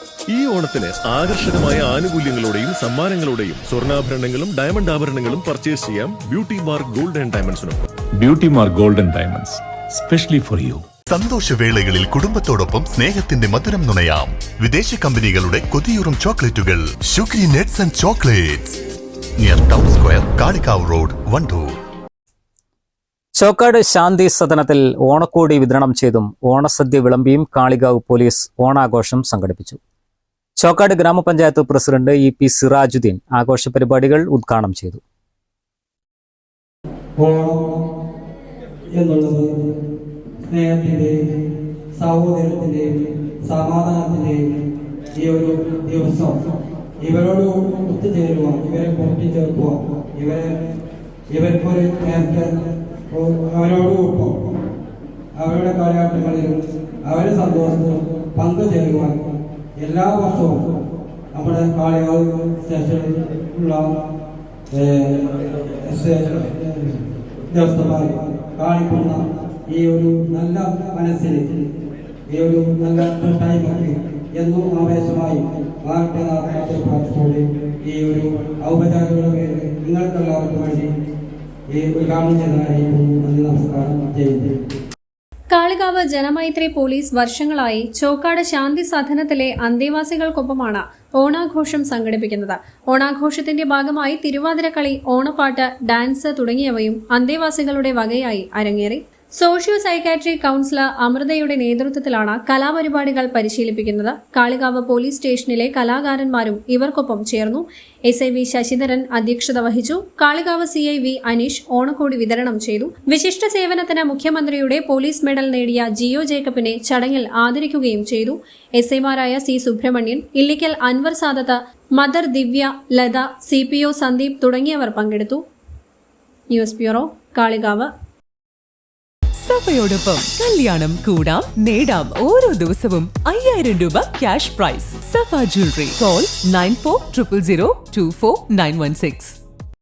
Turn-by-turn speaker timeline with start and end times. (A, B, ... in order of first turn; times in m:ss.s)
0:00.3-0:07.8 A
0:08.2-0:10.9 B
0:11.1-0:18.7 C
0:19.4-0:21.8 C
0:23.4-0:29.8 D
0:30.6-0:35.0 D
0:37.2-0:37.7 E
0:38.9-0:39.6 E
0:40.4-0:41.2 E
0:41.9-0:44.4 E
0:45.1-0:46.3 E
0:47.0-0:50.6 E
0:51.3-0:52.5 E
0:53.1-0:54.4 E
0:55.4-0:59.2 E
0:59.8-1:00.6 E
1:01.3-1:03.9 E
1:04.7-1:07.0 E
1:07.5-1:11.5 E
1:12.3-1:20.9 E
1:21.7-1:24.6 E
1:25.5-2:05.4 F
2:06.5-2:07.9 F
2:09.4-2:19.4 G